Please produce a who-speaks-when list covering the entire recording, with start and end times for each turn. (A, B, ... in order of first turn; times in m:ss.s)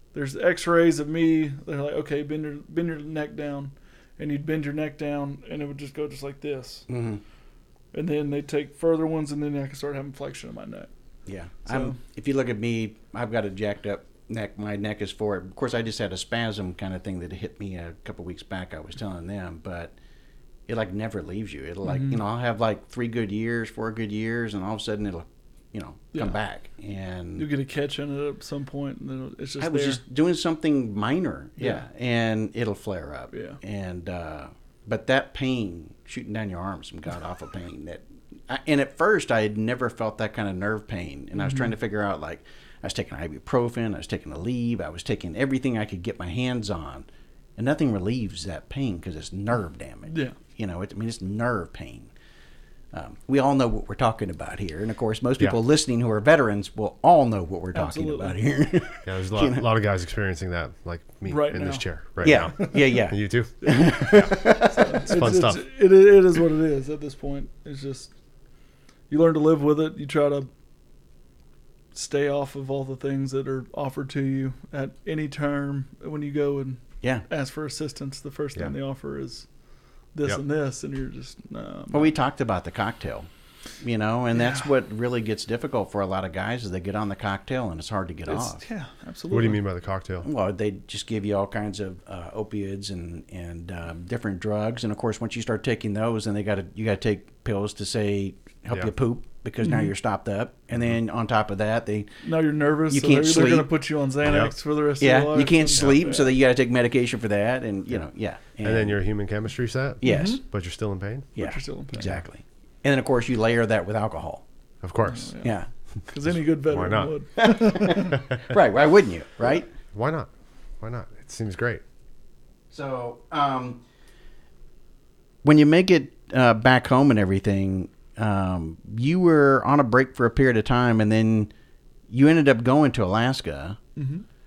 0:00.1-0:06.9 A
0:06.9-0:07.2 B
0:07.9-0:10.9 A
0:11.2-0:19.9 B
0:11.6-0:12.0 A
0:20.7-0:27.5 B
0:21.8-0:22.2 A
0:27.4-0:30.0 A
0:29.6-0:52.1 B
0:33.3-0:33.6 A
0:41.4-0:41.7 A
0:50.1-0:50.4 A
0:52.9-0:59.6 B
0:57.7-0:58.4 A
0:59.0-1:04.5 C
1:01.2-1:03.0 A
1:02.2-1:05.0 B
1:03.6-1:08.1 A
1:05.1-1:05.6 C
1:09.1-1:10.5 A
1:11.9-1:19.5 A
1:20.1-1:22.1 A
1:21.9-1:28.6 B
1:28.3-1:29.6 A
1:29.3-1:30.2 C
1:30.2-1:42.2 B
1:39.6-1:39.9 A
1:42.2-1:46.3 A
1:42.9-1:43.7 B
1:44.2-1:44.5 C
1:45.0-1:49.0 B
1:48.6-1:51.4 C
1:50.0-1:50.4 B
1:50.0-1:50.4 A
1:51.4-1:54.4 B
1:51.4-1:52.1 A
1:51.9-1:52.2 C
1:54.8-1:55.4 C
1:55.1-1:58.2 A
1:55.4-1:55.7 B
1:56.7-1:57.4 C
1:57.4-1:59.6 B
1:59.9-2:01.8 C
2:02.7-2:03.8 B
2:05.4-2:11.5 B
2:12.1-2:13.8 B
2:14.0-2:14.2 A